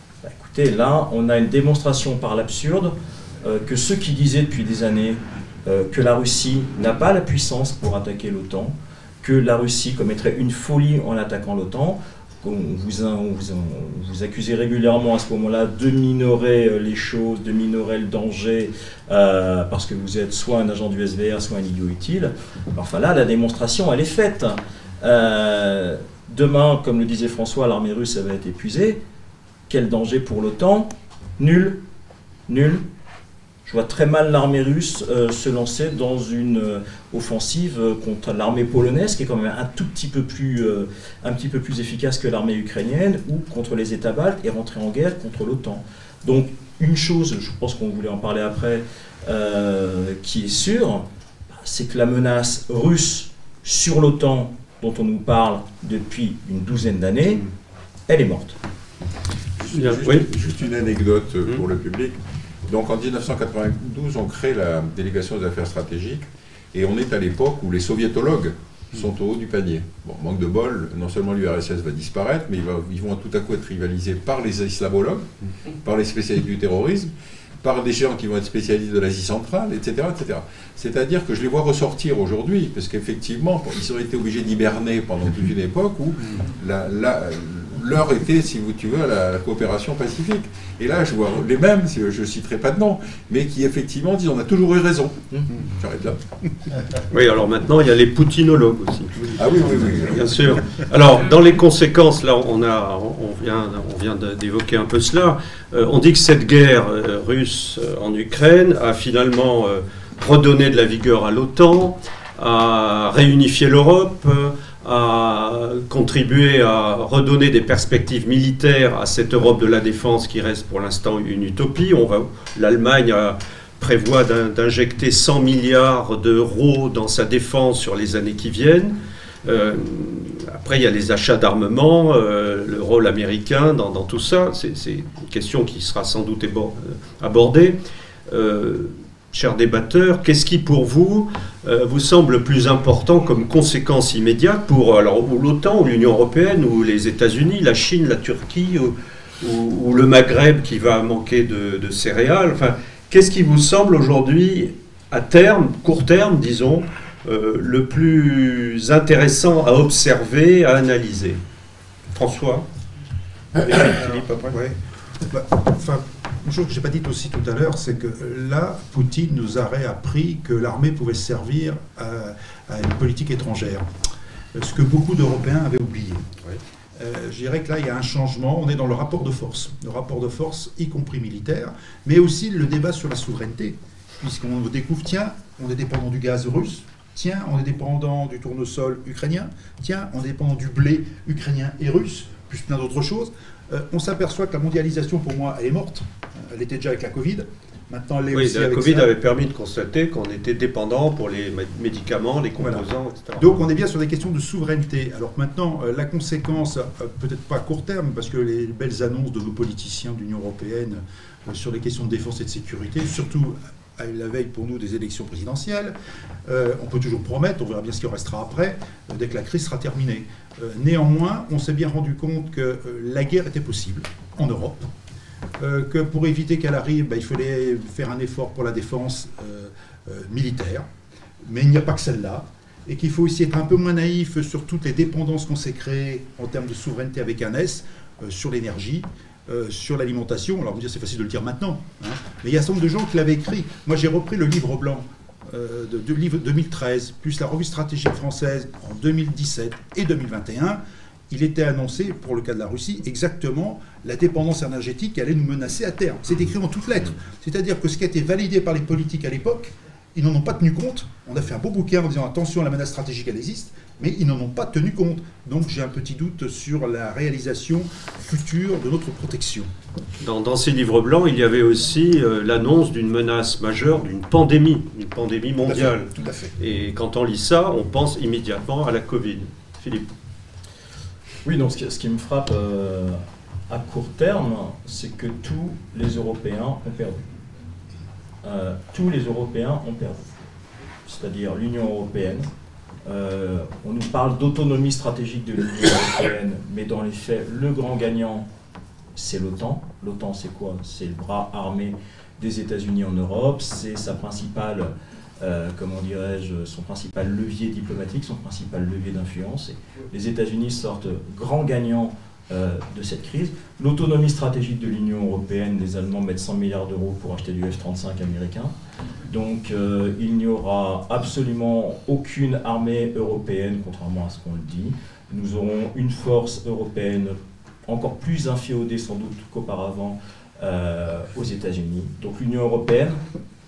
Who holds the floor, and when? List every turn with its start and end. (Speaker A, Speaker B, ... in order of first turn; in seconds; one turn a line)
Speaker A: 0.2-29.0
Speaker A: 29.7-31.8
Speaker A: 32.5-32.8
Speaker A: 33.6-57.4
Speaker A: 58.1-58.6
Speaker B: 59.6-75.3
Speaker C: 59.7-60.3
Speaker B: 75.8-96.2
Speaker C: 97.1-99.4
Speaker B: 99.3-100.4
Speaker C: 100.1-137.8
Speaker C: 138.3-161.4
Speaker C: 162.1-162.7
Speaker C: 163.6-164.5
Speaker D: 163.9-173.9
Speaker D: 174.5-176.2
Speaker D: 177.0-199.1
Speaker C: 198.3-203.7
Speaker D: 202.6-202.8
Speaker D: 203.4-215.9
Speaker D: 216.5-224.9
Speaker D: 225.6-230.9
Speaker D: 231.4-269.7
Speaker C: 270.2-280.1
Speaker D: 275.6-276.5
Speaker A: 281.4-287.3
Speaker A: 288.4-290.3
Speaker A: 291.1-292.5
Speaker A: 293.1-298.5
Speaker A: 299.2-318.7
Speaker A: 319.3-333.2